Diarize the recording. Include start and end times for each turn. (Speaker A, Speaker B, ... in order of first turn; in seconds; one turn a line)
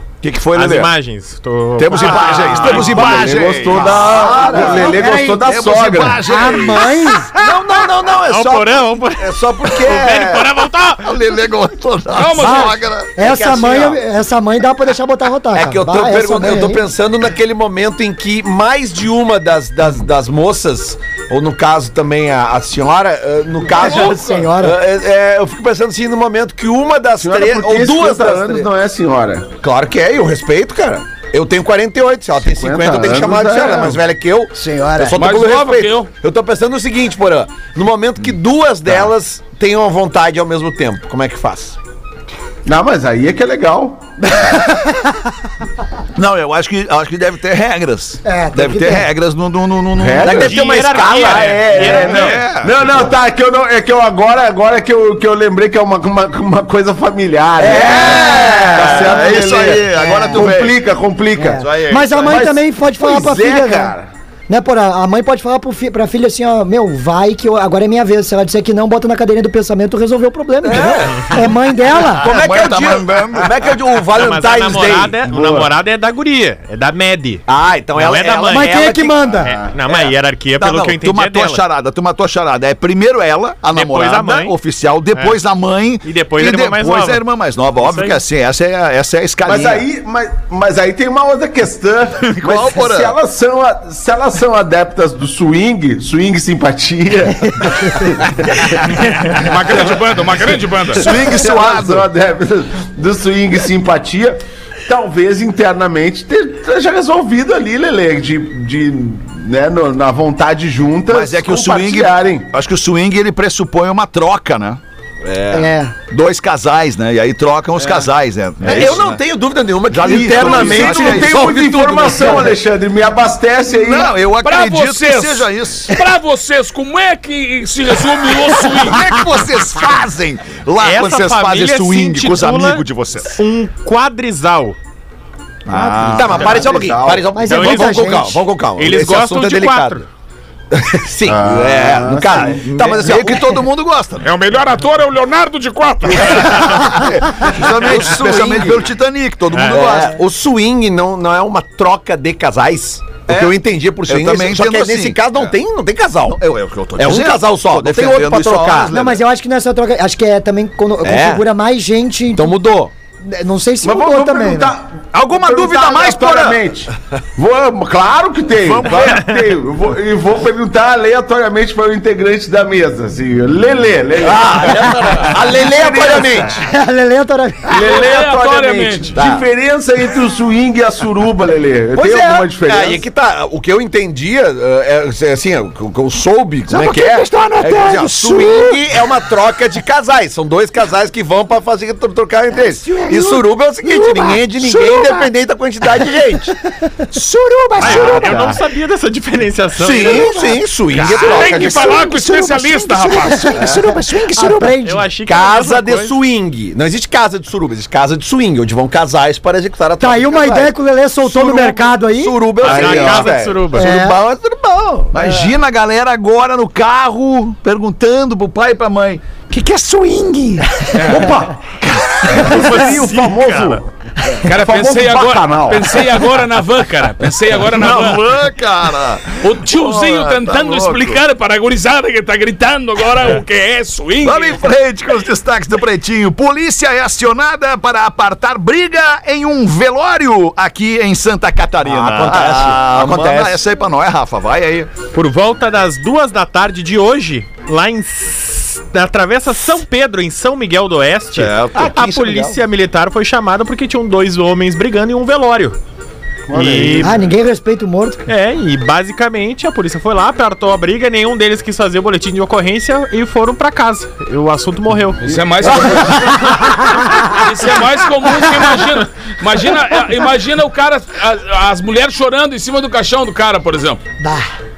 Speaker A: 0.2-0.9
Speaker B: 0.6-3.2
Speaker A: 1.8-7.2
Speaker C: 2.4-6.2
Speaker D: 3.7-5.1
Speaker E: 4.5-5.6
Speaker E: 6.2-7.3
Speaker D: 7.3-10.5
Speaker B: 8.3-11.2
Speaker A: 11.0-13.2
Speaker F: 12.1-12.8
Speaker E: 12.4-16.9
Speaker D: 13.2-14.0
Speaker D: 15.5-28.7
Speaker E: 23.8-24.8
Speaker C: 27.2-29.5
Speaker D: 29.6-41.8
Speaker C: 32.4-34.0
Speaker E: 34.5-35.2
Speaker F: 35.1-36.1
Speaker C: 42.6-44.1
Speaker E: 44.4-44.7
Speaker A: 46.2-50.6
Speaker E: 48.2-49.1
Speaker C: 50.0-50.5
Speaker D: 50.2-52.0
Speaker B: 50.3-52.4
Speaker C: 51.1-61.6
Speaker A: 51.9-53.1
Speaker D: 57.6-59.2
Speaker A: 57.7-60.8
Speaker E: 58.0-58.5
Speaker E: 60.0-60.5
Speaker E: 61.4-63.9
Speaker A: 61.5-62.5
Speaker C: 62.2-64.1
Speaker E: 64.5-72.4
Speaker D: 70.6-71.5
Speaker D: 72.2-75.4
Speaker A: 72.2-73.8
Speaker B: 74.1-78.8
Speaker C: 75.3-75.7
Speaker D: 77.5-79.4
Speaker E: 78.5-79.5
Speaker B: 79.4-81.6
Speaker A: 80.6-89.8
Speaker B: 83.7-84.5
Speaker B: 85.1-85.4
Speaker B: 86.0-87.3
Speaker B: 87.8-88.2
Speaker C: 89.5-100.0
Speaker A: 92.2-93.2
Speaker F: 99.3-101.1
Speaker A: 101.0-102.1
Speaker C: 101.0-112.5
Speaker A: 111.1-114.8
Speaker D: 115.2-115.7
Speaker E: 115.5-115.9
Speaker A: 116.1-119.2
Speaker D: 118.6-122.5
Speaker A: 119.9-121.5
Speaker C: 120.3-124.1
Speaker A: 123.7-126.0
Speaker F: 124.4-129.0
Speaker A: 128.7-133.4
Speaker B: 130.8-134.8
Speaker A: 135.7-136.7
Speaker E: 135.7-136.2
Speaker C: 135.9-137.3
Speaker D: 136.1-140.0
Speaker E: 137.3-138.4
Speaker B: 137.5-138.1
Speaker B: 138.8-140.1
Speaker D: 140.7-143.6
Speaker C: 141.2-142.6
Speaker A: 142.4-144.3
Speaker F: 144.2-146.9
Speaker A: 146.2-150.2
Speaker D: 147.7-148.8
Speaker B: 149.5-149.9
Speaker D: 149.7-156.4
Speaker A: 153.3-153.6
Speaker A: 154.1-155.6
Speaker A: 156.3-159.2
Speaker D: 157.0-158.9
Speaker E: 158.9-162.6
Speaker D: 161.0-161.4
Speaker D: 162.3-162.9
Speaker E: 163.2-164.7
Speaker C: 163.8-176.6
Speaker A: 165.1-166.6
Speaker B: 168.6-169.5
Speaker D: 174.2-176.7
Speaker E: 176.6-177.8
Speaker C: 177.7-183.0
Speaker F: 177.7-179.2
Speaker D: 179.1-179.5
Speaker D: 181.9-196.6
Speaker A: 186.7-188.9
Speaker A: 192.8-195.3
Speaker A: 197.1-198.6
Speaker B: 197.8-200.3
Speaker D: 197.8-198.5
Speaker D: 199.8-202.0
Speaker A: 200.9-204.8
Speaker F: 201.0-203.6
Speaker E: 203.3-205.1
Speaker B: 204.8-206.2
Speaker D: 205.2-215.3
Speaker E: 210.0-212.5
Speaker C: 212.6-213.3
Speaker B: 212.6-213.9
Speaker E: 213.8-214.2
Speaker A: 215.1-221.1
Speaker F: 220.9-221.3
Speaker C: 221.1-221.6
Speaker A: 221.8-223.8
Speaker C: 222.3-223.8
Speaker C: 224.4-226.1
Speaker F: 224.4-228.2
Speaker A: 227.6-231.2
Speaker F: 229.4-234.7
Speaker A: 234.2-244.9
Speaker D: 241.8-243.6
Speaker B: 245.1-255.8
Speaker A: 251.3-252.0
Speaker D: 251.8-252.6
Speaker C: 256.5-257.2
Speaker B: 256.5-257.2
Speaker E: 257.0-258.2
Speaker B: 258.3-265.4
Speaker F: 265.2-266.4
Speaker E: 266.1-267.1
Speaker F: 267.3-274.0
Speaker E: 274.2-274.5